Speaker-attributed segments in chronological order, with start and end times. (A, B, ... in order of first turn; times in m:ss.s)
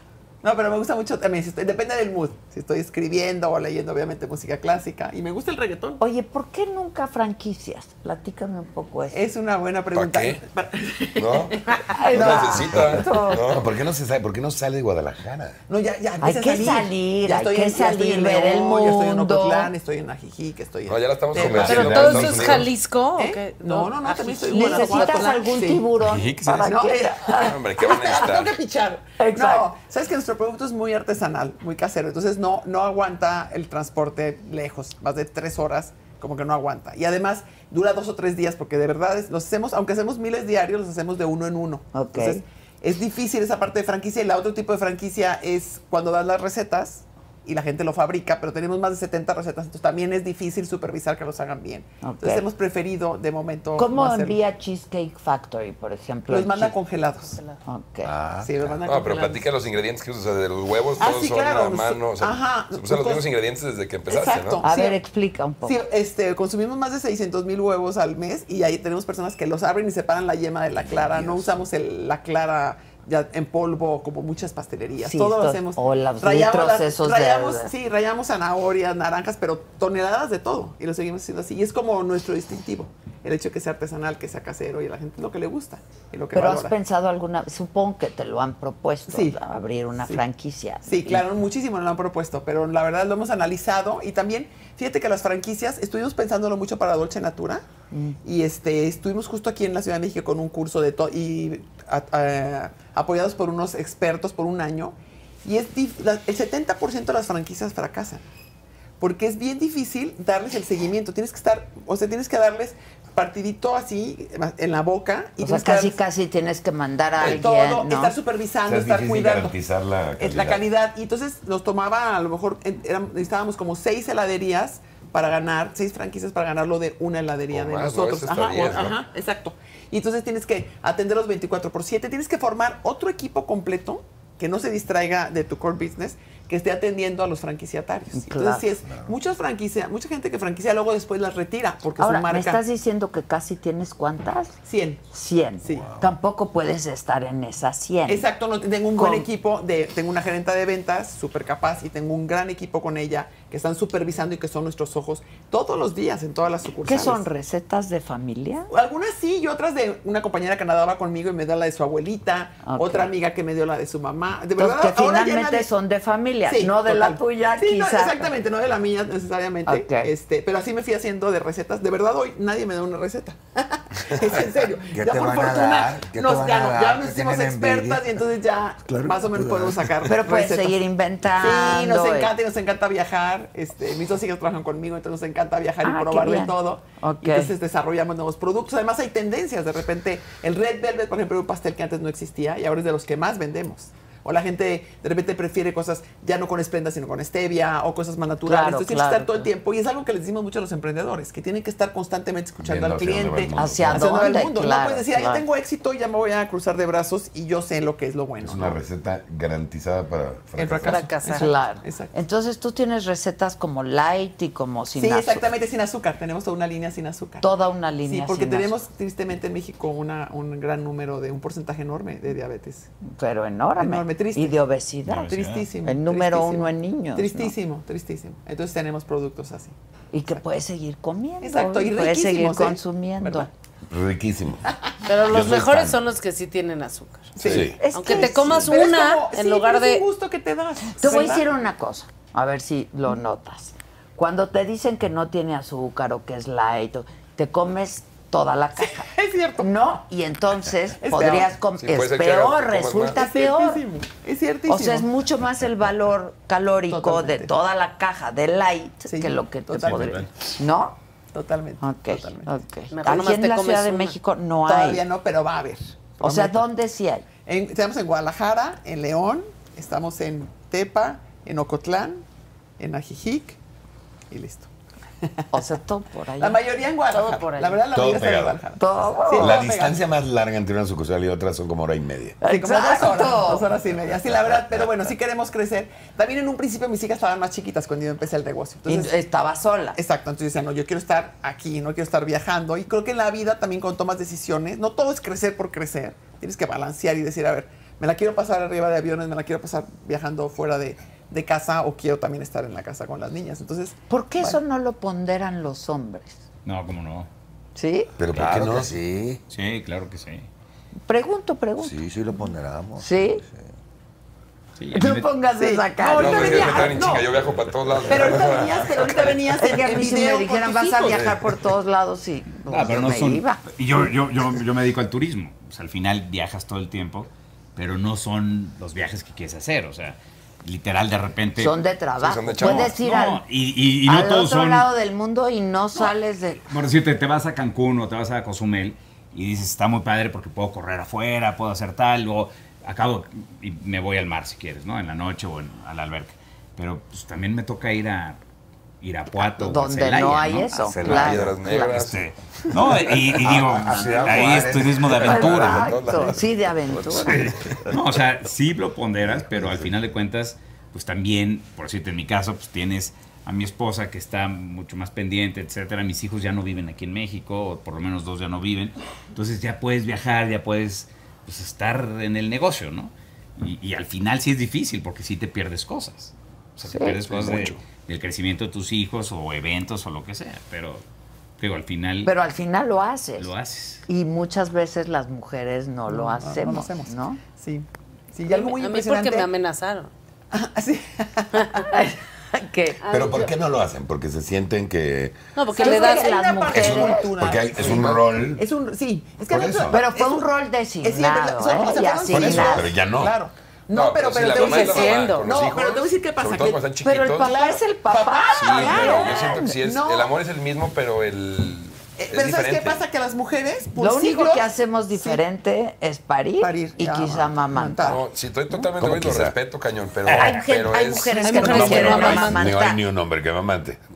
0:00.4-0:06.0 A
0:06.0-0:09.2 B
0:09.1-0:13.4 A
0:09.9-0:10.4 C
0:11.2-0:11.6 C
0:11.9-0:13.4 B
0:12.1-0:13.7 C
0:13.5-0:15.6 D
0:15.7-0:22.3 A
0:16.2-0:19.7 B
0:20.9-0:22.7 C
0:21.4-0:22.7 D
0:21.6-0:25.4 E
0:23.2-0:25.9 A
0:24.4-0:28.3 B
0:26.0-0:26.7 F
0:26.5-0:54.4 A
0:27.4-0:28.6 C
0:29.2-0:29.7 B
0:41.9-0:42.4 B
0:52.0-0:52.4 B
0:53.8-0:56.8 B
0:56.3-0:57.4 A
0:57.7-0:58.1 B
0:58.1-0:58.5 G
0:58.4-0:59.5 A
0:58.8-1:04.6 C
1:01.0-1:03.3 A
1:04.1-1:05.0 A
1:04.6-1:05.8 B
1:05.6-1:26.8 A
1:11.2-1:11.4 G
1:15.0-1:17.7 B
1:26.3-1:31.2 B
1:29.1-1:29.4 A
1:30.8-1:37.6 A
1:37.9-1:38.2 B
1:38.2-1:48.2 A
1:49.0-1:56.0 A
1:55.4-1:58.2 B
1:57.2-1:59.6 A
1:58.7-2:00.6 D
2:00.2-2:22.6 A
2:07.5-2:09.0 C
2:18.1-2:18.7 B
2:18.9-2:19.1 G
2:22.0-2:24.6 B
2:24.6-2:25.0 A
2:25.1-2:28.3 B
2:25.6-2:25.9 A
2:25.7-2:26.1 G
2:28.1-2:37.3 A
2:29.0-2:29.3 B
2:36.8-2:38.7 B
2:38.7-2:45.7 A
2:42.6-2:43.1 B
2:44.6-2:48.3 B
2:46.4-3:00.8 A
2:49.7-2:50.1 B
2:54.9-2:58.2 G
2:58.8-3:00.1 G
3:00.1-3:02.3 B
3:01.4-3:28.8 A
3:05.8-3:07.5 B
3:18.4-3:19.5 B
3:22.6-3:24.2 D
3:23.6-3:25.4 B
3:28.4-3:31.0 D
3:30.6-3:32.1 A
3:30.9-3:31.5 E
3:31.3-3:35.5 B
3:34.9-3:37.5 A
3:37.4-3:38.7 B
3:38.0-3:42.9 A
3:43.2-3:47.6 B
3:43.8-3:44.6 A
3:45.1-3:45.7 F
3:45.3-3:49.8 A
3:50.1-3:53.5 B
3:51.4-3:53.5 A
3:53.9-3:54.6 D
3:55.1-4:00.1 E
3:55.3-3:56.0 D
3:57.4-4:01.5 A
3:57.4-3:57.8 D
3:57.8-3:58.7 B
4:01.0-4:13.8 B
4:08.8-4:09.7 A
4:11.0-4:11.5 A
4:11.8-4:13.2 C
4:13.2-4:15.1 A
4:14.7-4:21.0 B
4:16.9-4:17.5 A
4:19.1-4:20.3 A
4:19.8-4:20.3 F
4:21.3-4:22.5 A
4:21.8-4:25.0 B
4:22.9-4:24.2 E
4:24.7-4:26.6 A
4:26.2-4:27.3 B
4:27.4-4:32.2 A
4:32.8-4:33.6 A
4:34.3-4:34.7 A
4:35.5-4:36.6 B
4:36.4-4:40.0 A
4:37.1-4:37.9 E
4:37.9-4:38.6 D
4:38.8-4:39.7 B
4:39.4-4:42.4 D
4:42.4-4:43.7 B
4:42.4-4:49.1 A
4:48.9-4:50.0 B
4:50.0-5:04.0 A
5:04.1-5:06.4 B
5:06.6-5:07.3 F
5:07.8-5:08.1 B
5:08.2-5:08.9 D
5:08.3-5:09.4 G
5:09.5-5:10.5 F
5:11.1-5:12.0 B
5:11.8-5:13.6 G
5:13.0-5:13.4 B
5:14.8-5:15.3 F
5:14.9-5:17.1 B
5:15.6-5:17.3 A
5:16.2-5:19.4 C
5:18.0-5:21.4 A
5:19.6-5:23.6 B
5:22.7-5:31.8 F
5:31.6-5:33.4 B
5:32.2-5:33.0 C
5:32.6-5:34.9 F
5:34.0-5:36.6 B
5:36.7-5:48.4 F
5:49.0-5:51.1 F
5:49.4-5:52.1 B
5:50.8-5:51.6 G
5:51.0-5:52.2 C
5:51.8-5:56.0 F
5:53.3-5:55.5 G
5:53.8-5:54.5 B
5:55.0-5:57.4 C
5:55.0-5:57.4 B
5:57.3-6:21.0 F
6:16.9-6:17.2 B
6:17.3-6:17.8 D
6:21.6-6:22.3 F
6:22.2-6:23.5 B
6:23.4-6:24.0 F
6:24.1-6:27.4 B
6:26.1-6:29.5 A
6:28.5-6:30.1 E
6:30.5-6:31.8 A
6:31.9-6:33.0 B
6:33.0-6:33.5 E
6:33.1-6:35.4 D
6:35.6-6:36.4 E
6:35.7-6:40.5 A
6:35.7-6:37.3 B
6:36.7-6:38.6 D
6:39.5-6:40.0 D
6:39.9-6:42.9 B
6:41.0-6:50.3 A
6:42.3-6:43.4 D
6:43.9-6:47.6 C
6:44.5-6:45.5 E
6:47.0-6:49.8 B
6:48.6-6:53.0 C
6:52.2-6:55.4 A
6:54.0-6:58.2 B
6:56.6-6:58.2 A
6:58.0-7:01.6 C
6:59.0-6:59.6 D
7:00.3-7:00.8 F
7:00.3-7:03.0 B
7:01.4-7:02.7 E
7:01.4-7:02.2 A
7:01.6-7:04.0 D